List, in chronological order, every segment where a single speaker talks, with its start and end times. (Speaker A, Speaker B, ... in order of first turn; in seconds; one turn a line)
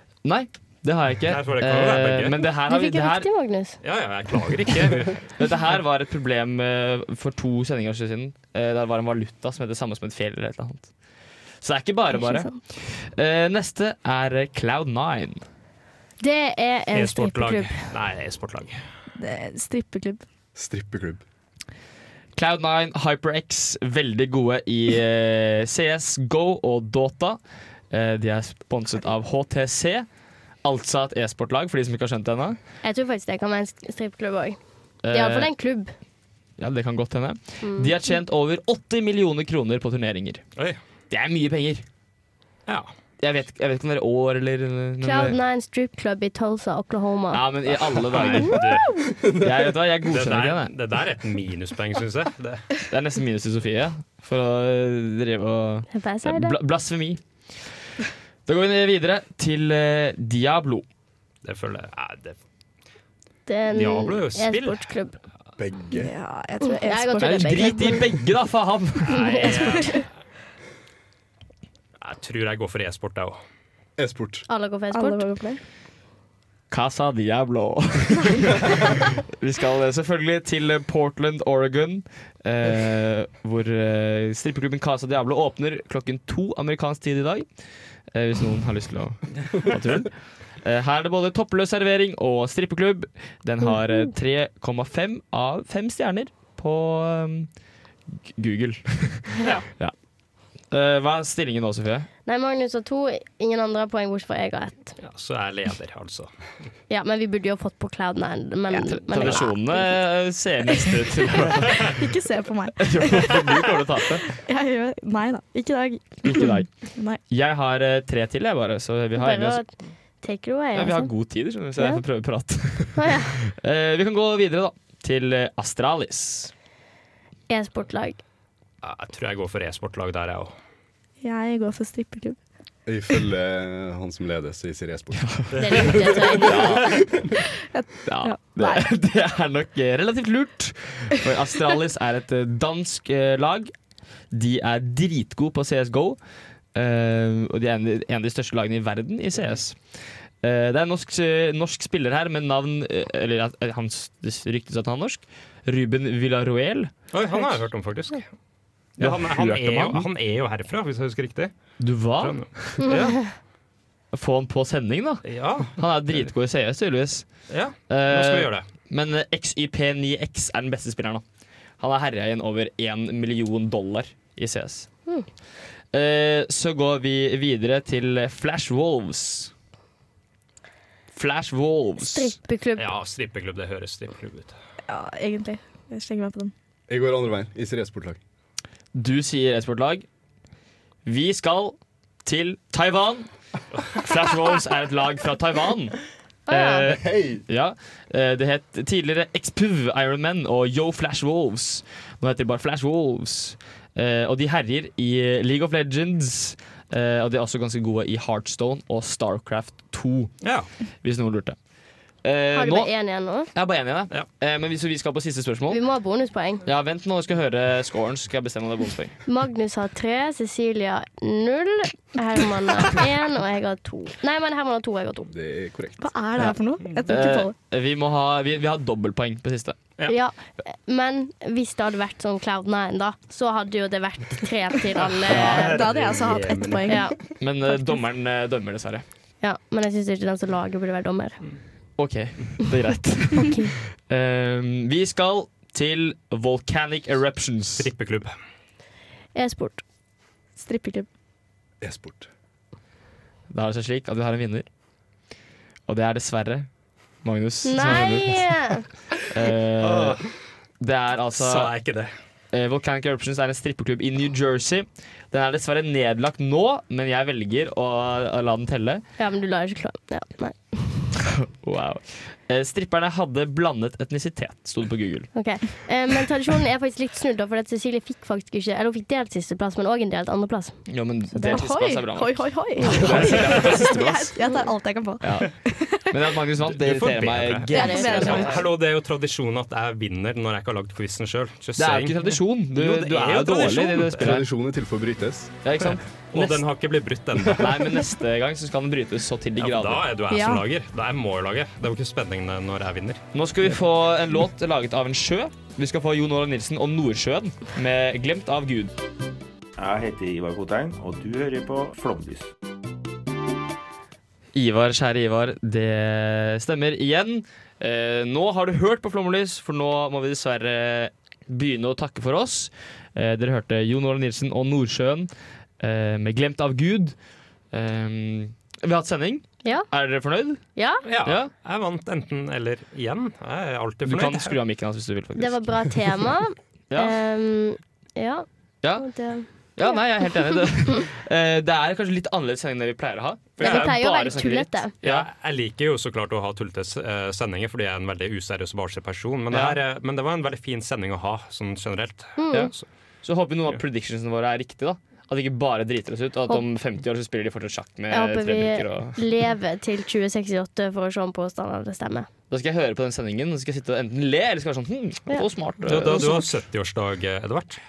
Speaker A: 0.2-3.3
Speaker B: 1.3-2.4
Speaker C: 2.6-3.8
Speaker B: 3.8-5.2
Speaker A: 5.4-10.9
Speaker A: 11.6-15.4
Speaker C: 12.2-12.5
Speaker C: 16.2-17.9
Speaker B: 16.9-18.8
Speaker D: 19.2-20.2
Speaker E: 20.6-21.2
Speaker A: 22.4-27.4
Speaker A: 27.9-30.1
Speaker A: 30.6-32.6
Speaker C: 32.8-34.6
Speaker A: 35.0-35.5
Speaker C: 35.1-35.9
Speaker A: 36.6-40.4
Speaker C: 37.6-37.9
Speaker A: 41.1-41.8
Speaker A: 43.2-45.4
Speaker C: 45.0-49.1
Speaker A: 47.3-48.6
Speaker B: 48.1-48.9
Speaker A: 49.4-50.7
Speaker B: 50.1-52.7
Speaker A: 52.9-57.7
Speaker C: 55.9-56.6
Speaker A: 58.5-60.9
Speaker B: 61.4-62.4
Speaker C: 63.5-65.2
Speaker B: 63.7-64.9
Speaker E: 65.6-66.1
Speaker D: 65.9-68.0
Speaker C: 66.6-68.1
Speaker A: 67.2-69.7
Speaker D: 69.3-70.1
Speaker B: 69.4-70.0
Speaker B: 72.0-73.4
Speaker E: 74.0-74.5
Speaker C: 74.5-75.2
Speaker D: 74.9-75.6
Speaker A: 76.7-87.5
Speaker A: 88.1-97.5
Speaker A: 98.3-99.9
Speaker C: 99.4-99.6
Speaker A: 100.7-102.1
Speaker C: 102.3-104.9
Speaker B: 105.0-106.3
Speaker C: 106.9-110.0
Speaker A: 108.7-111.9
Speaker D: 111.8-113.4
Speaker A: 112.8-114.2
Speaker D: 114.2-117.2
Speaker A: 116.2-116.7
Speaker A: 117.3-119.6
Speaker C: 119.1-119.7
Speaker C: 120.2-121.1
Speaker A: 120.8-126.5
Speaker C: 123.0-123.4
Speaker C: 127.5-128.2
Speaker B: 128.8-130.5
Speaker D: 131.2-132.4
Speaker E: 132.9-135.9
Speaker A: 135.2-135.5
Speaker B: 135.5-136.7
Speaker C: 135.6-136.8
Speaker A: 136.4-136.9
Speaker D: 137.7-138.9
Speaker A: 138.1-143.7
Speaker A: 144.3-146.2
Speaker A: 146.8-149.8
Speaker A: 150.4-156.9
Speaker B: 157.1-158.3
Speaker A: 159.0-160.1
Speaker B: 159.0-161.5
Speaker A: 161.8-162.9
Speaker B: 162.2-163.2
Speaker C: 162.8-163.3
Speaker A: 164.1-167.3
Speaker B: 165.2-165.8
Speaker B: 167.5-168.6
Speaker A: 167.9-171.2
Speaker A: 171.8-174.9
Speaker A: 175.9-179.5
Speaker A: 181.1-182.3
Speaker C: 182.0-182.9
Speaker B: 182.8-184.5
Speaker D: 184.9-186.5
Speaker E: 186.9-188.2
Speaker A: 188.9-190.0
Speaker A: 191.0-193.3
Speaker A: 194.0-210.3
Speaker C: 196.5-197.0
Speaker E: 196.8-197.4
Speaker B: 210.4-210.7
Speaker A: 211.0-211.6
Speaker A: 212.2-212.9
Speaker C: 212.5-213.5
Speaker A: 213.5-215.8
Speaker C: 215.7-216.6
Speaker A: 216.6-219.2
Speaker C: 219.3-225.3
Speaker E: 225.3-226.2
Speaker D: 226.0-227.5
Speaker A: 226.4-229.8
Speaker C: 230.1-235.8
Speaker B: 235.0-237.2
Speaker A: 235.3-235.7
Speaker D: 235.6-237.1
Speaker C: 236.9-237.2
Speaker A: 237.4-239.0
Speaker C: 239.4-241.4
Speaker A: 242.0-247.9
Speaker C: 243.4-243.7
Speaker B: 247.8-248.3
Speaker C: 249.3-249.8
Speaker D: 250.6-251.1
Speaker E: 251.8-252.3
Speaker A: 253.5-254.7
Speaker A: 255.9-256.7
Speaker A: 257.2-258.7
Speaker C: 257.6-258.9
Speaker A: 259.3-260.2
Speaker B: 259.8-260.3
Speaker A: 260.8-261.7
Speaker B: 261.4-262.1
Speaker A: 262.5-269.0
Speaker C: 269.2-271.1
Speaker A: 271.5-275.3
Speaker C: 275.3-281.6
Speaker A: 280.9-284.4
Speaker D: 281.4-286.2
Speaker A: 285.2-288.6
Speaker B: 286.7-294.4
Speaker C: 287.7-288.6
Speaker D: 287.7-288.6
Speaker A: 291.8-294.5
Speaker E: 294.2-295.5
Speaker A: 295.6-296.6
Speaker B: 296.3-297.9
Speaker A: 297.5-300.0
Speaker B: 299.6-303.2
Speaker D: 300.3-300.6
Speaker A: 303.3-308.9
Speaker F: 309.8-312.5
Speaker A: 314.5-325.3
Speaker A: 325.8-327.1
Speaker A: 327.7-330.6
Speaker C: 329.6-329.9
Speaker C: 330.8-331.0
Speaker B: 331.0-334.5
Speaker A: 331.2-331.5
Speaker A: 334.0-336.0
Speaker C: 335.4-338.5
Speaker A: 336.9-337.1
Speaker A: 338.8-345.2
Speaker C: 339.0-340.3
Speaker B: 343.6-344.1
Speaker C: 343.6-344.9
Speaker B: 345.0-352.9
Speaker A: 349.5-349.8
Speaker C: 352.4-352.7
Speaker A: 352.5-359.2
Speaker C: 358.1-362.3
Speaker A: 362.5-366.4
Speaker B: 365.9-367.8